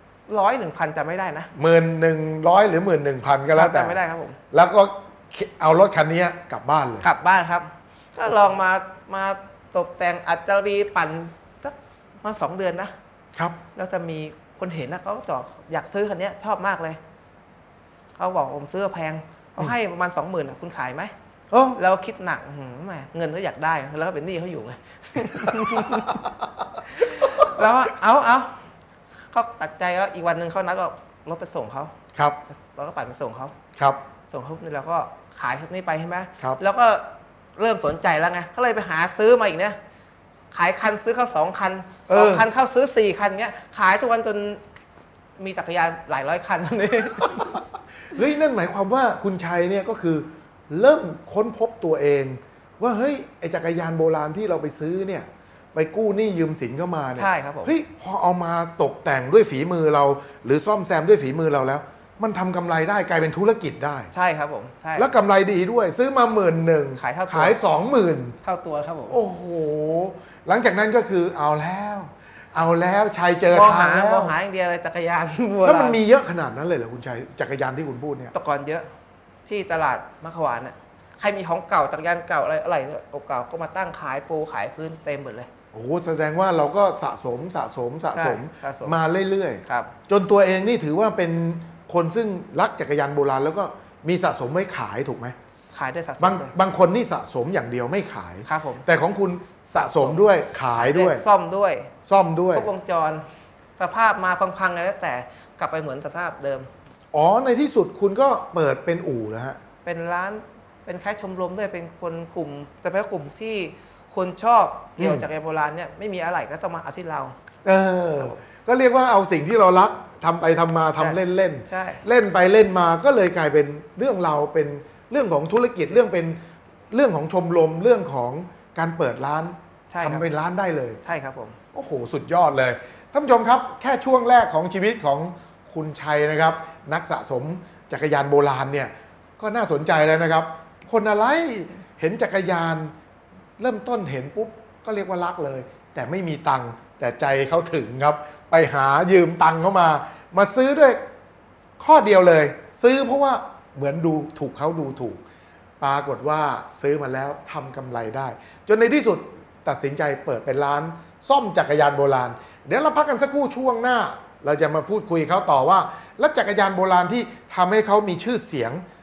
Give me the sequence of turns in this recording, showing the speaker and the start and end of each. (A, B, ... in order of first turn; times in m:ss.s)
0:00.3-0:01.5 A
0:01.5-0:04.0 B
0:03.5-0:04.4 A
0:04.5-0:07.1 B
0:07.0-0:12.9 A
0:13.7-0:17.0 A
0:18.2-0:21.1 A
0:21.5-0:21.8 B
0:21.7-0:26.3 A
0:25.4-0:26.4 B
0:26.8-0:28.6 A
0:27.2-0:27.6 B
0:29.2-0:31.9 A
0:32.5-0:33.5 A
0:34.3-0:39.8 A
0:40.5-0:44.6 A
0:42.1-0:42.5 B
0:45.4-0:47.6 A
0:48.1-1:04.1 B
0:57.2-0:57.7 A
1:04.1-1:05.1 A
1:05.0-1:08.4 B
1:07.0-1:07.6 A
1:08.4-1:09.2 A
1:09.1-1:14.3 B
1:13.5-1:16.0 A
1:15.6-1:18.3 B
1:18.3-1:18.9 A
1:19.4-1:25.5 A
1:25.7-1:35.3 B
1:28.1-1:29.0 A
1:29.6-1:29.9 A
1:35.7-1:36.5 A
1:36.2-1:41.2 B
1:38.4-1:38.8 A
1:39.7-1:41.9 A
1:42.1-1:42.7 B
1:42.5-1:43.2 A
1:43.8-1:46.7 A
1:47.1-1:49.6 B
1:49.8-1:57.4 A
1:55.0-1:55.3 B
1:57.6-2:06.4 B
2:01.0-2:02.0 A
2:06.9-2:11.0 B
2:09.9-2:10.2 A
2:11.0-2:11.6 A
2:11.7-2:22.9 B
2:23.6-2:31.0 B
2:31.8-2:35.2 B
2:35.8-2:48.8 B